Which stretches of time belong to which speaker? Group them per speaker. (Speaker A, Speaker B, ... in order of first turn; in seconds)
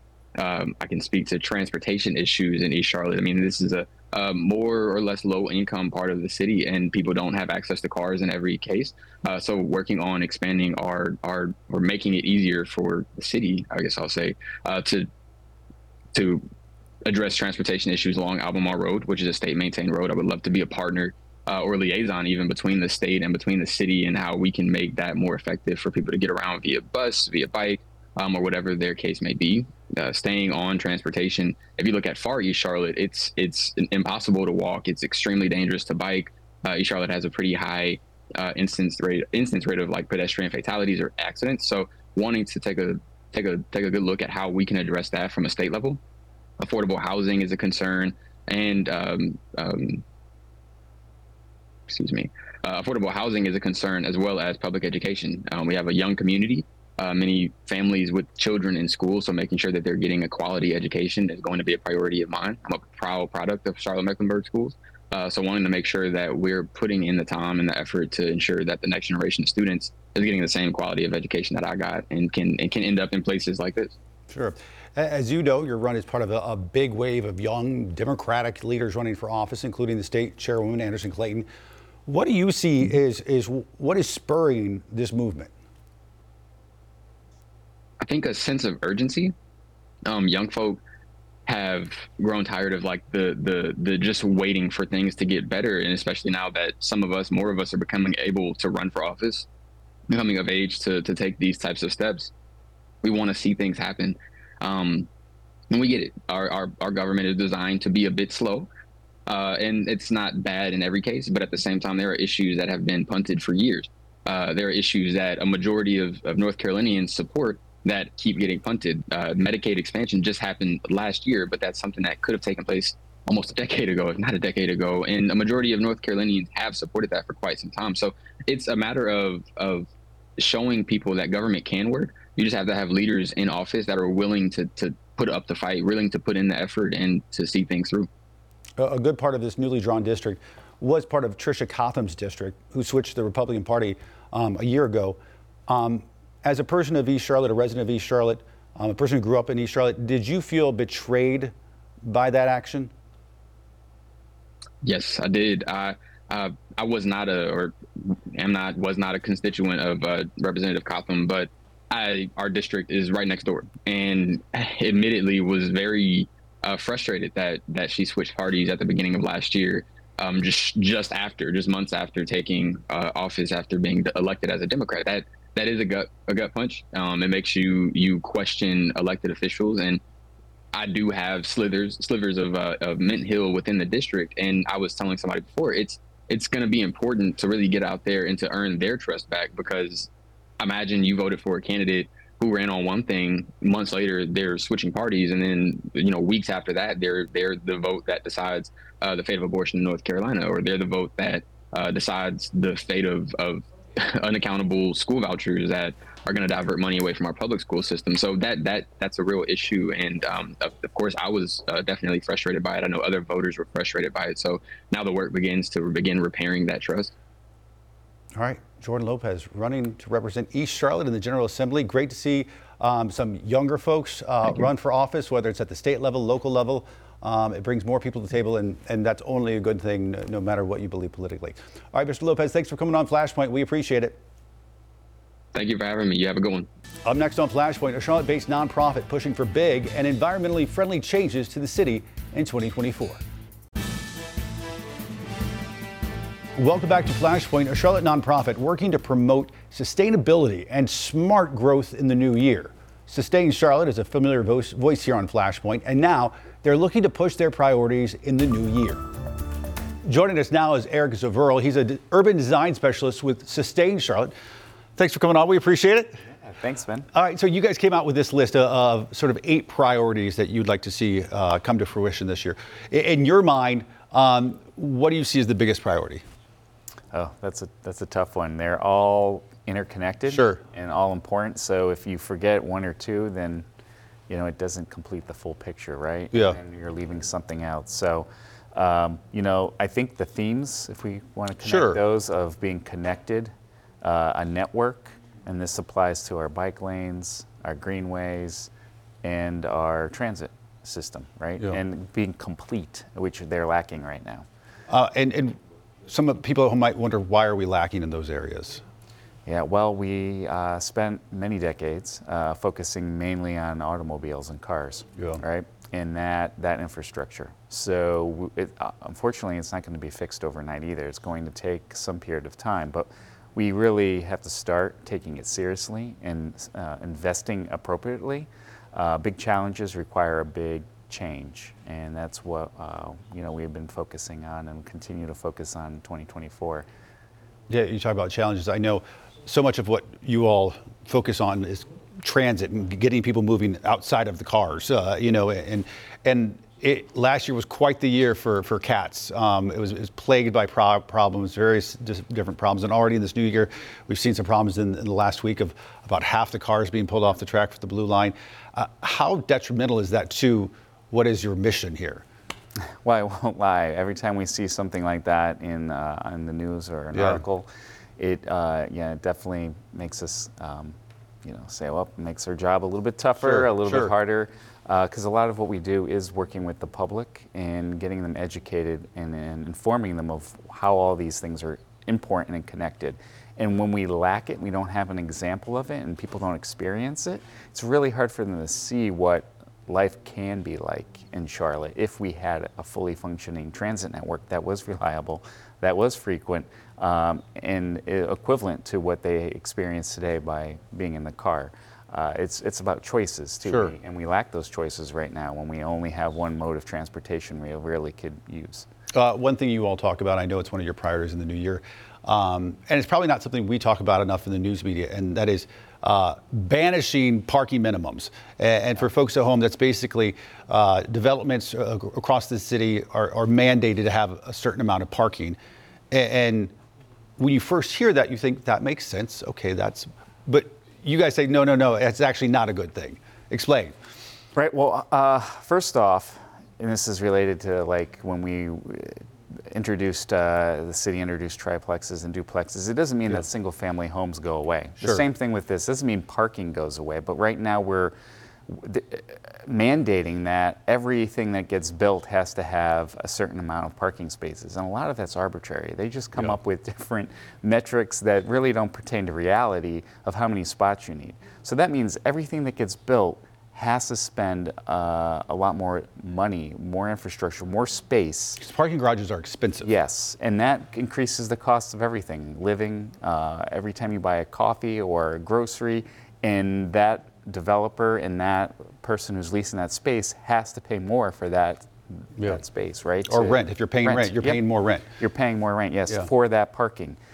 Speaker A: 0.4-15.1, 16.1-16.4, 17.1-46.0, 46.6-50.0, 51.9-73.9, 88.0-89.3, 90.1-90.8, 91.5-99.5, 100.1-102.3, 103.0-105.1, 105.7-108.7, 109.3-138.1, 154.8-180.0, 180.7-190.1, 190.6-217.1, 235.5-236.7
Speaker B: 74.3-81.5, 82.1-85.5, 138.8-151.5, 152.1-152.9, 218.3-234.2, 237.1-243.2, 246.6-259.0, 260.1-264.3, 265.0-266.2, 267.1-276.2, 280.3-280.6, 286.3-286.6, 291.6-292.0, 304.9-308.8, 337.7-362.2, 367.1-367.4, 373.4-374.1, 403.7-403.9, 409.1-425.6, 426.1-426.7, 427.4-433.9, 468.6-469.9, 483.3-485.1
Speaker C: 266.3-267.1, 277.1-283.6, 284.3-298.7, 299.2-304.4, 309.5-336.9, 363.0-408.9, 434.6-439.2, 439.7-448.1, 448.7-468.6, 469.8-484.6, 485.2-487.2